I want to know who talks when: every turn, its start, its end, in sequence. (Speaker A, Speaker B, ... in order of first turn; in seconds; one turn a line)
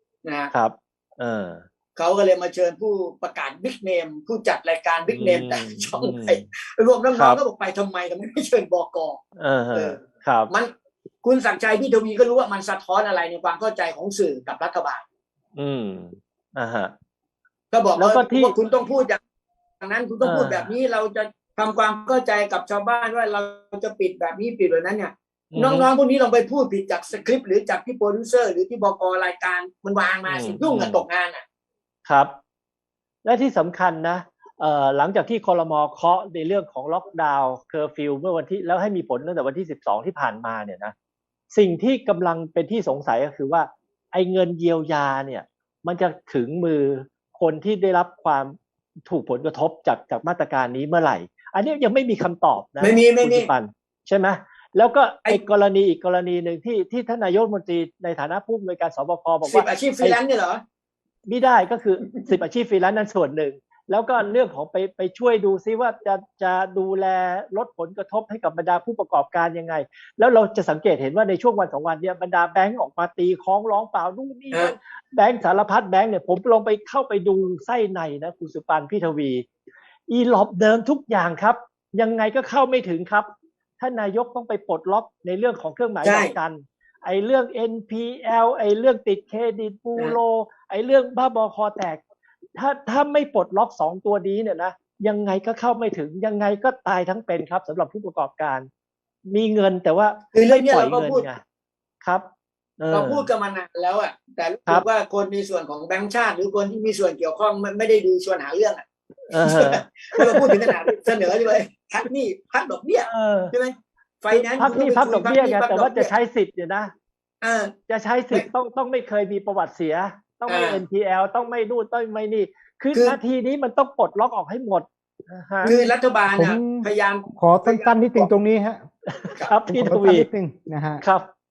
Speaker A: 0.2-0.5
Speaker B: 0.5-1.6
Speaker A: 1.9-9.2
Speaker B: 5.1-6.5
Speaker B: 7.1-7.4
Speaker B: 9.4-10.5
Speaker A: 9.7-10.7
Speaker A: 11.2-15.0
Speaker B: 15.6-16.9
Speaker A: 17.7-19.2
Speaker B: 17.9-18.5
Speaker A: 19.8-31.4
Speaker B: 20.2-20.7
Speaker B: 25.5-25.9
Speaker B: 30.2-31.0
Speaker B: 32.0-32.4
Speaker B: 33.2-40.9
Speaker B: 41.5-48.5
Speaker B: 49.0-60.2
Speaker A: 52.8-53.5
Speaker A: 59.4-60.6
Speaker B: 61.3-79.5
Speaker B: 80.1-83.3
Speaker B: 83.8-92.0
Speaker A: 86.0-86.3
Speaker B: 92.5-98.7
Speaker B: 99.3-101.4
Speaker A: 100.3-101.3
Speaker B: 102.0-102.3
Speaker B: 102.8-103.3
Speaker A: 102.9-108.8
Speaker B: 109.3-111.3
Speaker A: 109.4-116.1
Speaker B: 113.1-113.5
Speaker B: 114.3-116.9
Speaker A: 117.4-117.8
Speaker B: 117.9-125.8
Speaker A: 120.5-120.8
Speaker C: 125.6-128.8
Speaker A: 125.7-128.3
Speaker B: 129.1-130.3
Speaker C: 129.7-131.0
Speaker B: 131.0-131.3